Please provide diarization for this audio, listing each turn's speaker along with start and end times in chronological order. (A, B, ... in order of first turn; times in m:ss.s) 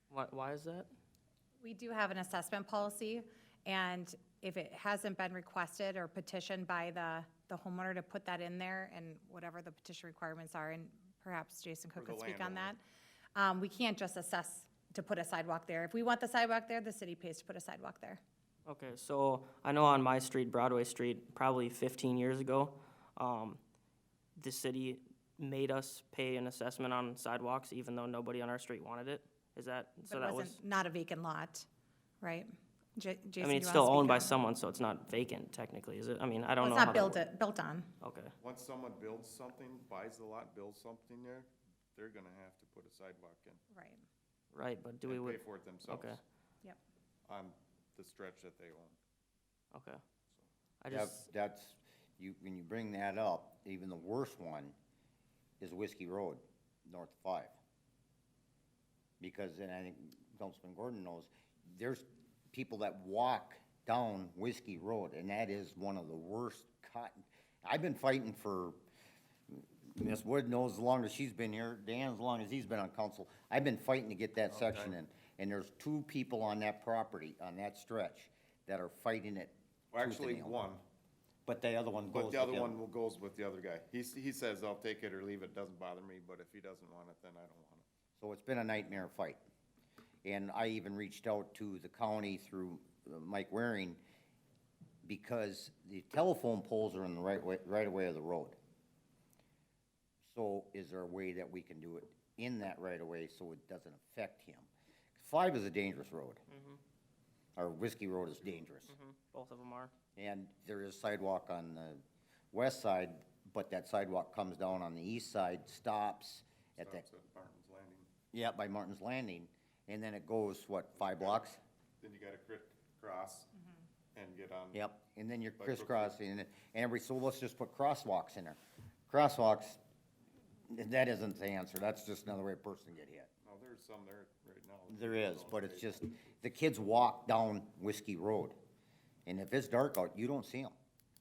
0:00.1-0:00.9 A
0:01.6-0:12.8 B
0:11.9-0:12.7 C
0:13.3-0:18.2 B
0:18.7-0:23.6 A
0:24.4-0:30.6 A
0:30.1-0:31.7 B
0:32.2-0:34.3 B
0:33.4-0:37.2 A
0:36.6-0:37.9 B
0:38.0-0:38.3 A
0:38.4-0:43.6 C
0:43.7-0:44.0 B
0:44.5-0:46.2 A
0:45.0-0:46.2 C
0:47.3-0:49.0 C
0:49.7-0:50.0 A
0:50.8-0:51.2 A
0:50.9-0:54.7 D
0:55.6-0:57.6 D
0:59.2-1:08.8 D
1:09.5-1:20.6 D
1:14.5-1:15.0 C
1:19.9-1:20.8 C
1:21.4-1:22.8 D
1:22.1-1:27.8 C
1:28.2-1:29.4 D
1:30.2-1:34.0 D
1:35.0-1:38.6 D
1:40.2-1:46.4 D
1:46.5-1:46.8 A
1:47.6-1:49.0 D
1:48.9-1:49.9 A
1:50.2-1:57.0 D
1:56.8-1:58.1 C
1:58.3-2:01.6 D
2:01.0-2:03.5 C
2:04.1-2:04.8 C
2:04.7-2:09.8 D
2:05.6-2:06.2 C
2:10.7-2:13.3 D
2:13.4-2:16.1 C
2:14.9-2:18.6 D
2:19.2-2:20.8 D